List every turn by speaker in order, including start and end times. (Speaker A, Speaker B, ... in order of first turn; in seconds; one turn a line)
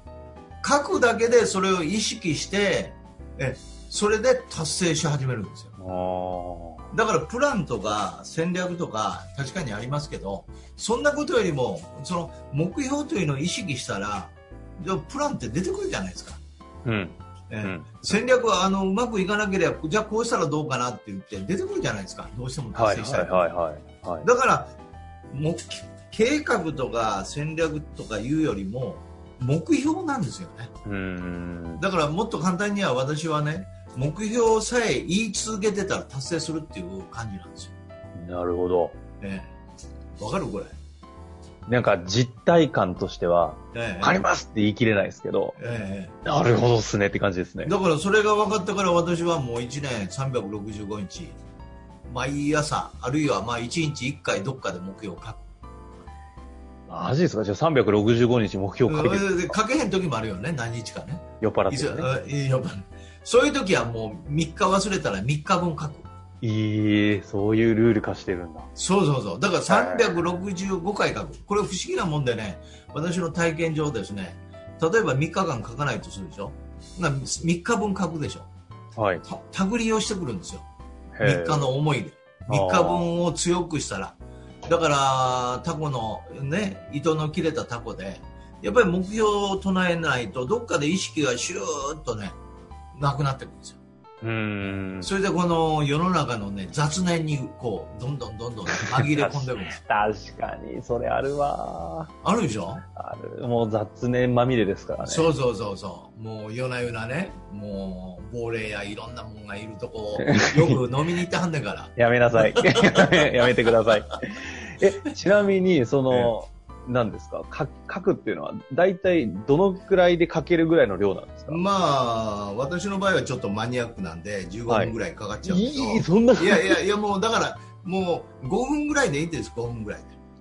Speaker A: 0.6-5.7
Speaker B: 5.8-6.9
Speaker A: 6.9-16.4
Speaker B: 16.9-18.2
Speaker A: 17.5-23.6
Speaker B: 22.7-24.3
Speaker A: 24.2-24.7
Speaker A: 25.3-30.7
Speaker B: 30.9-31.8
Speaker A: 31.8-37.7
Speaker B: 38.1-39.0
Speaker A: 39.2-39.5
Speaker A: 40.2-40.8
Speaker B: 41.7-45.6
Speaker A: 43.7-44.3
Speaker A: 45.6-46.2
Speaker B: 46.2-47.7
Speaker A: 47.6-51.4
Speaker A: 52.1-55.5
Speaker B: 56.9-59.6
Speaker A: 58.9-66.1
Speaker B: 61.4-62.1
Speaker B: 66.4-68.7
Speaker A: 68.8-78.5
Speaker B: 69.7-70.3
Speaker B: 79.0-79.2
Speaker A: 79.2-80.7
Speaker B: 81.2-81.8
Speaker A: 81.2-92.4
Speaker B: 82.5-83.1
Speaker A: 92.9-93.8
Speaker B: 94.2-95.1
Speaker A: 95.0-99.8
Speaker B: 99.0-102.1
Speaker A: 102.2-102.8
Speaker B: 102.9-105.3
Speaker A: 105.0-114.0
Speaker B: 110.2-110.8
Speaker B: 112.0-121.6
Speaker A: 121.5-130.1
Speaker B: 124.7-126.8